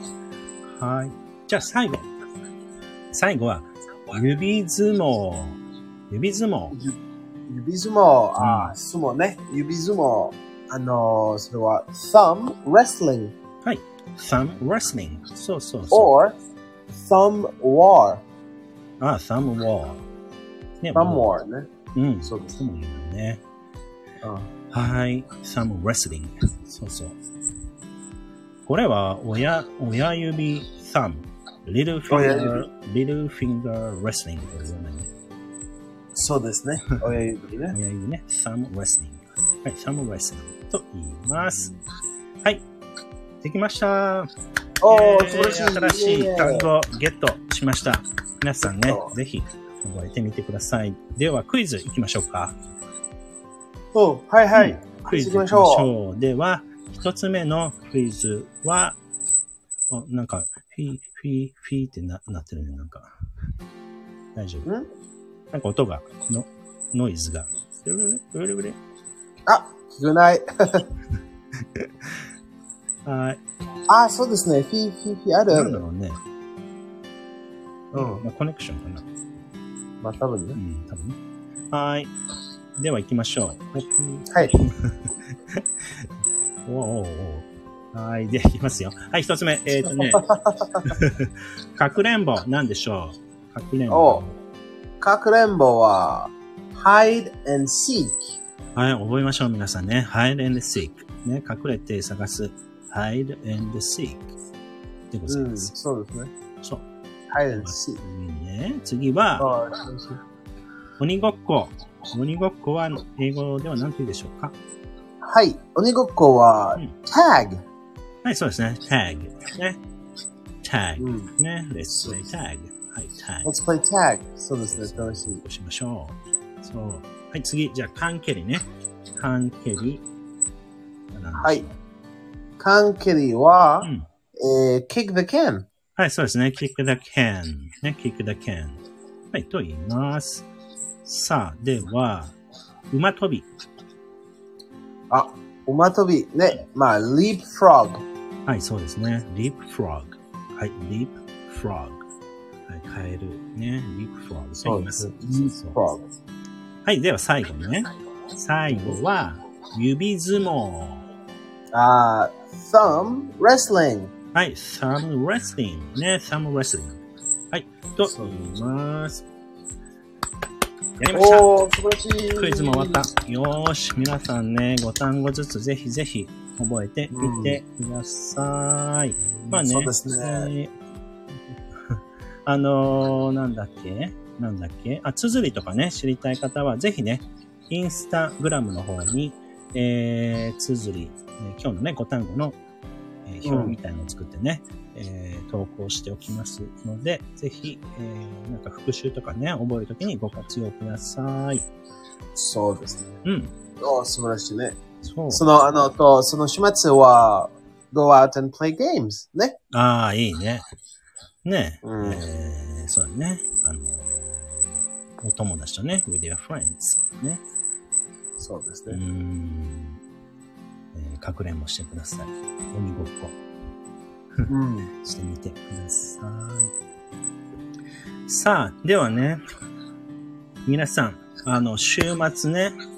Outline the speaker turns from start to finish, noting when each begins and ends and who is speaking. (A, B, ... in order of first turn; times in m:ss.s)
0:00.7-0:02.1 A
0:03.1-0:05.6 A
0:06.1-0:06.8 A
0:06.7-0:07.0 B
0:07.5-0:13.3 B
0:08.4-0:08.7 A
0:13.6-0:16.1 A
0:15.9-0:16.4 B
0:16.9-0:18.2 B
0:19.0-0:20.0 A
0:20.8-0:21.3 A
0:20.9-0:21.7 B
0:21.9-0:23.4 A
0:22.2-0:22.6 B
0:24.2-0:24.5 B
0:24.7-0:27.2 A
0:28.6-0:35.1 A
0:32.1-0:32.7 B
0:36.1-0:37.8 B
0:37.7-0:41.7 A
0:41.4-0:41.8 B
0:43.4-0:44.3 A
0:44.8-0:46.7 B
0:44.9-0:52.5 A
0:48.8-0:49.1 B
0:53.9-0:55.9 B
0:54.5-0:59.0 A
0:59.9-1:03.1 A
1:04.3-1:04.7 A
1:05.5-1:08.8 A
1:09.5-1:10.9 B
1:11.7-1:12.1 A
1:13.0-1:13.4 A
1:13.9-1:15.8 B
1:15.5-1:16.2 A
1:17.9-1:18.2 B
1:17.9-1:19.0 A
1:20.0-1:20.6 B
1:20.6-1:21.2 A
1:21.7-1:22.1 A
1:22.8-1:26.1 A
1:26.6-1:30.2 A
1:30.1-1:30.8 B
1:30.8-1:34.4 A
1:33.9-1:34.2 B
1:35.0-1:38.4 B
1:38.7-1:44.3 A
1:45.1-1:45.7 A
1:45.3-1:46.3 B
1:46.6-1:46.9 A
1:47.3-1:48.0 B
1:47.5-1:49.5 A
1:49.4-1:50.2 B
1:51.0-1:54.5 A
1:55.2-1:57.6 B
1:58.2-1:59.8 A
2:00.6-2:03.5 A
2:01.0-2:01.3 B
2:01.9-2:02.2 B
2:03.4-2:05.4 B
2:04.6-2:08.6 A
2:09.2-2:10.0 A
2:11.1-2:11.7 A
2:11.4-2:11.6 B
2:12.6-2:15.6 B
2:13.8-2:14.1 A
2:16.0-2:20.4 A
2:21.0-2:22.3 A
2:22.9-2:23.5 A
2:25.1-2:28.0 B
2:28.4-2:32.0 A
2:32.7-2:35.8 A
2:34.6-2:36.0 B
2:36.8-2:41.0 A
2:38.7-2:39.0 B
2:41.7-2:44.1 B
2:44.3-2:47.0 A
2:47.5-2:49.2 A
2:48.0-2:48.4 B
2:51.0-2:51.5 A
2:51.1-2:53.0 B
2:52.4-3:00.7 A
2:57.1-2:57.6 B
2:59.5-3:00.5 B
3:02.4-3:12.6 A
3:13.2-3:21.6 A
3:13.4-3:13.8 B
3:22.3-3:23.2 B
3:23.2-3:23.5 A
3:23.8-3:24.8 B
3:25.0-3:25.4 A
3:25.3-3:29.6 B
3:29.7-3:30.6 A
3:31.4-3:34.7 A
3:31.8-3:32.2 B
3:35.2-3:37.4 A
3:38.4-3:39.0 B
3:38.9-3:40.0 A
3:40.9-3:43.4 A
3:44.5-3:44.9 B
3:45.0-3:46.7 A
3:48.3-3:49.4 A
3:50.6-3:52.8 A